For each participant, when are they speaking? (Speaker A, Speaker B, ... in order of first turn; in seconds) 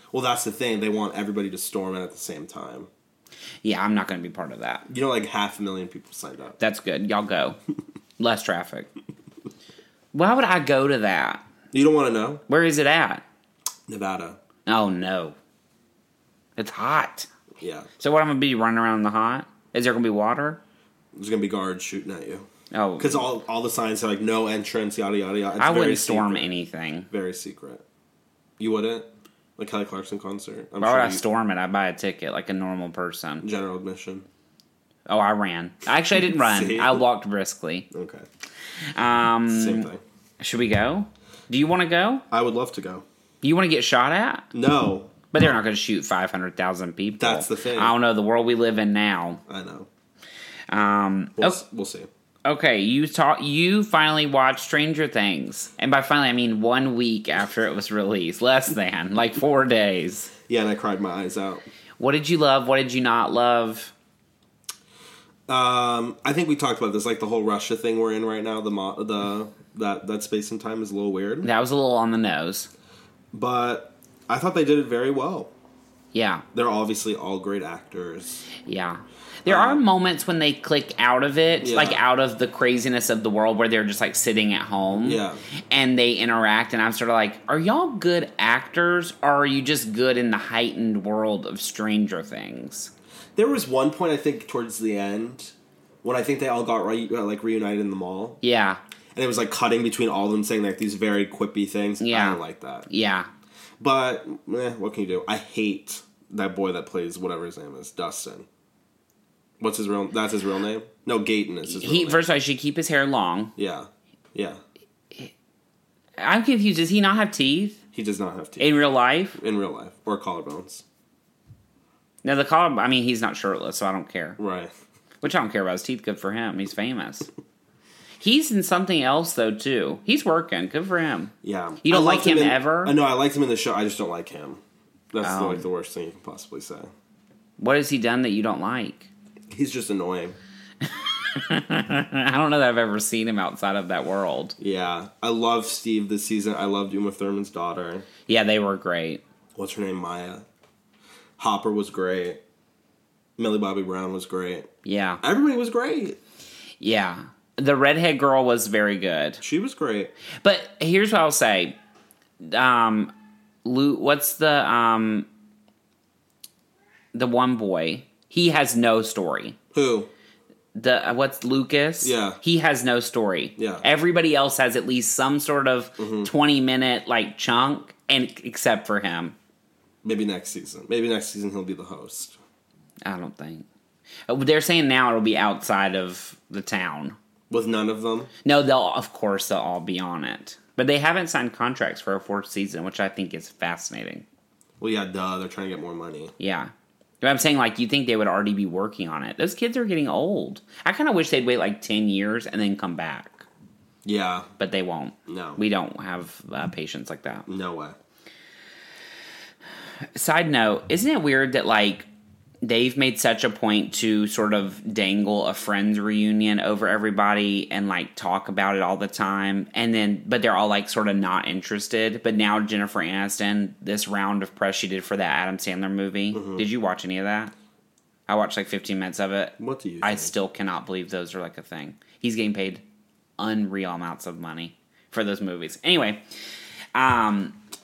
Speaker A: 0.1-2.9, 4.9-6.6, 11.7-12.4, 13.9-14.4, 17.6-17.9, 21.1-22.5, 23.0-26.5, 27.1-27.8, 28.6-31.2, 33.4-34.2, 36.3-37.0, 37.9-38.3, 39.5-40.0, 42.3-43.0, 44.5-45.1, 47.2-47.9, 49.5-49.9, 51.4-52.1, 60.5-61.7, 65.5-71.5, 73.3-75.5, 76.5-78.5, 79.5-79.8, 81.6-82.0, 85.0-85.4, 93.3-98.4, 99.1-102.9, 103.8-108.5, 109.6-112.2, 113.6-114.6, 117.9-118.7, 119.4-120.8, 124.4-124.7, 131.4-134.6, 135.1-136.9, 139.5-140.4, 144.6-148.1, 149.5-150.4, 151.4-152.4, 153.4-154.7, 155.2-156.2, 159.4-160.1, 169.7-170.1, 172.0-172.4, 173.6-173.8, 176.0-176.3, 180.0-182.4, 187.5-188.3, 194.8-196.3, 204.0-204.5, 205.3-205.6, 207.5-208.0, 226.3-226.7, 229.6-230.3
Speaker B: 3.6-4.8, 6.6-7.6, 8.2-8.9, 10.1-11.4, 12.5-13.2, 14.7-15.3, 16.6-17.3, 18.0-20.6, 22.7-23.2, 25.6-27.1, 30.8-33.4, 35.1-37.9, 38.9-42.2, 43.4-44.5, 45.3-49.4, 50.7-51.6, 52.5-60.3, 62.0-63.9, 71.4-72.7, 76.1-76.4, 78.6-92.9, 98.4-98.8, 102.0-103.3, 111.7-113.5, 116.2-117.8, 118.6-119.4, 122.2-124.4, 125.2-127.3, 128.2-131.3, 131.8-132.9, 135.2-135.6, 137.6-139.1, 141.3-144.6, 148.3-149.2, 154.8-155.2, 156.8-159.4, 160.4-161.8, 162.4-163.1, 163.6-165.3, 167.1-169.6, 170.7-179.3, 183.0-183.7, 184.3-187.2, 188.4-194.2, 196.4-203.4, 204.6-207.5, 210.1-212.1, 212.6-227.5, 228.3-232.8, 233.4-236.2, 236.9-237.6